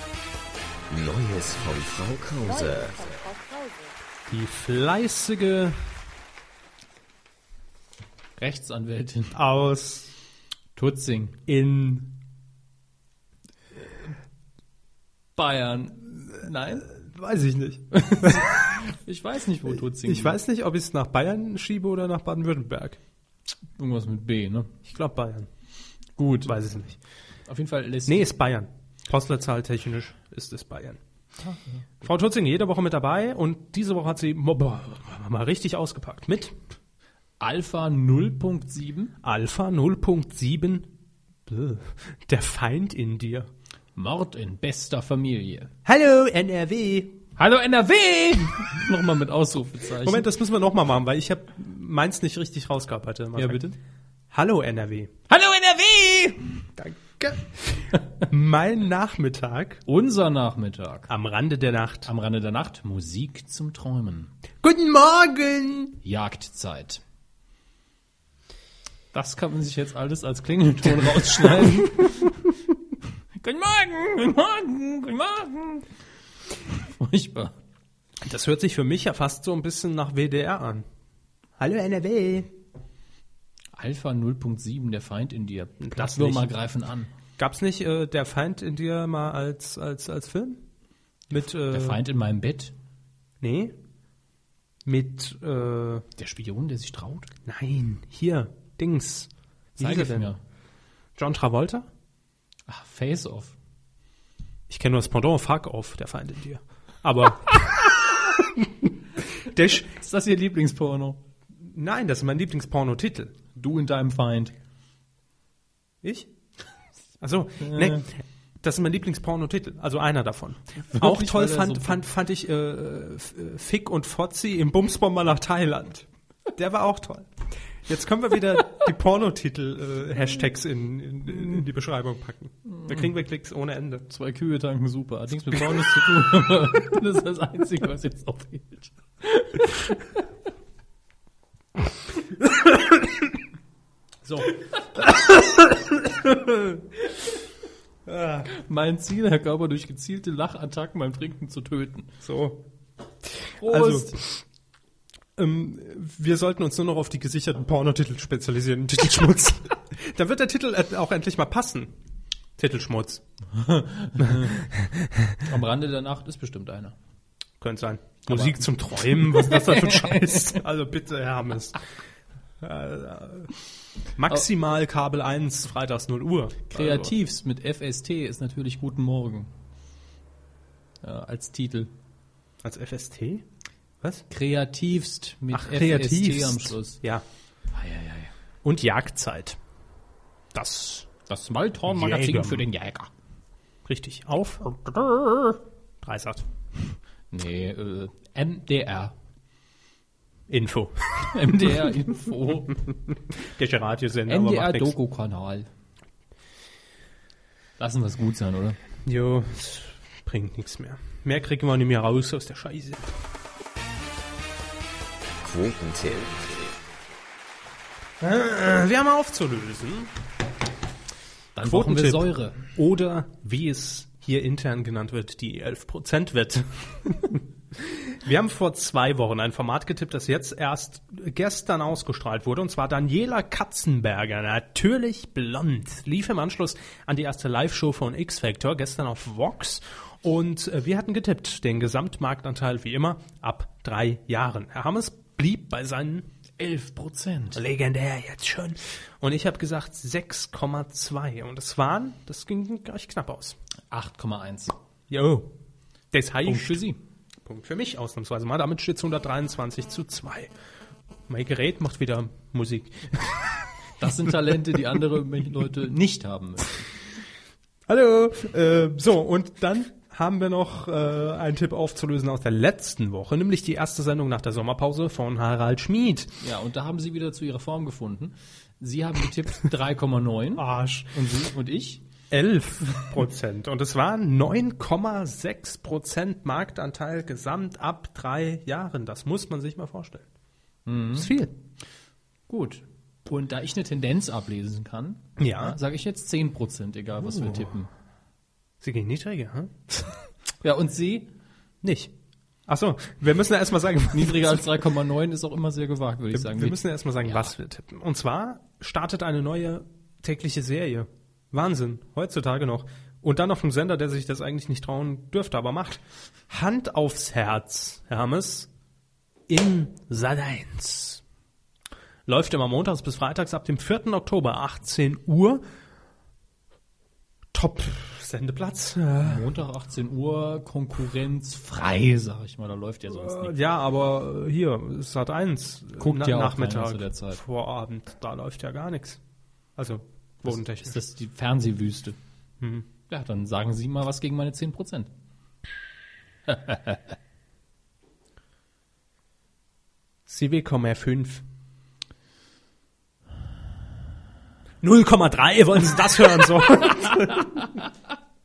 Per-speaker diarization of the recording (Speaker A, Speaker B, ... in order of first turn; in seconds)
Speaker A: 0.9-3.3, 215.4-216.8
Speaker B: 4.3-5.8, 9.3-10.1, 11.5-12.2, 16.9-18.7, 19.7-23.0, 24.8-25.5, 26.4-27.0, 28.1-31.0, 32.0-36.5, 39.2-40.9, 41.5-43.5, 45.8-47.2, 50.0-53.7, 54.3-55.1, 56.8-59.8, 61.1-62.1, 64.6-66.0, 78.2-80.8, 81.6-82.5, 85.8-86.5, 87.4-90.6, 91.3-92.0, 93.4-93.7, 94.8-96.0, 97.5-100.3, 101.2-101.9, 104.7-108.7, 109.4-109.9, 111.7-113.3, 116.0-116.3, 117.2-134.1, 144.2-144.6, 145.4-146.8, 148.1-148.5, 152.2-152.6, 153.4-154.4, 155.4-161.9, 162.6-163.2, 164.2-164.9, 167.6-171.8, 172.6-173.5, 174.1-177.1, 182.6-183.4, 185.5-187.2, 188.6-189.6, 190.5-191.1, 191.9-192.7, 193.8-195.0, 196.0-196.4, 200.5-201.9, 203.4-204.9, 209.0-213.1, 218.2-220.1, 221.6-246.3, 247.5-253.6, 255.1-255.5, 256.1-256.8, 257.4-260.5, 261.3-263.6, 267.9-276.4, 280.6-281.1, 282.3-290.2, 291.1-291.5, 295.4-295.8, 297.3-297.7, 298.8-300.0, 301.8-302.1, 302.7-304.6, 306.3-318.7, 319.5-321.2, 322.3-325.6, 327.5-329.5, 333.1-339.2, 339.8-341.0, 342.6-342.9, 350.3-351.4, 354.8-357.8
Speaker C: 8.4-9.4, 10.8-11.4, 13.8-14.1, 15.3-16.9, 17.9-20.4, 23.8-24.7, 26.2-26.5, 27.5-28.3, 31.4-31.8, 37.4-39.1, 44.0-45.7, 47.4-50.3, 53.4-53.8, 55.3-56.6, 59.9-61.1, 62.0-64.3, 66.0-67.0, 69.1-72.4, 73.3-75.9, 76.5-77.6, 83.8-87.1, 91.4-92.7, 96.2-97.3, 99.8-100.4, 102.7-103.5, 109.8-111.2, 113.5-114.5, 117.6-118.0, 120.9-122.0, 132.8-133.1, 134.1-140.2, 148.5-152.1, 153.6-154.2, 163.5-164.7, 165.4-166.9, 168.3-170.6, 176.7-179.5, 181.0-181.9, 184.3-187.0, 187.7-188.3, 191.3-193.1, 197.3-199.1, 201.3-202.8, 204.3-205.7, 207.8-208.8, 221.5-222.6, 246.6-247.6, 253.9-254.8, 256.4-257.0, 264.0-266.9, 276.4-282.0, 290.8-291.3, 292.5-297.9, 300.6-301.3, 304.1-307.5, 329.2-333.6, 336.0-337.4, 340.4-342.2, 343.1-345.1, 346.5-347.1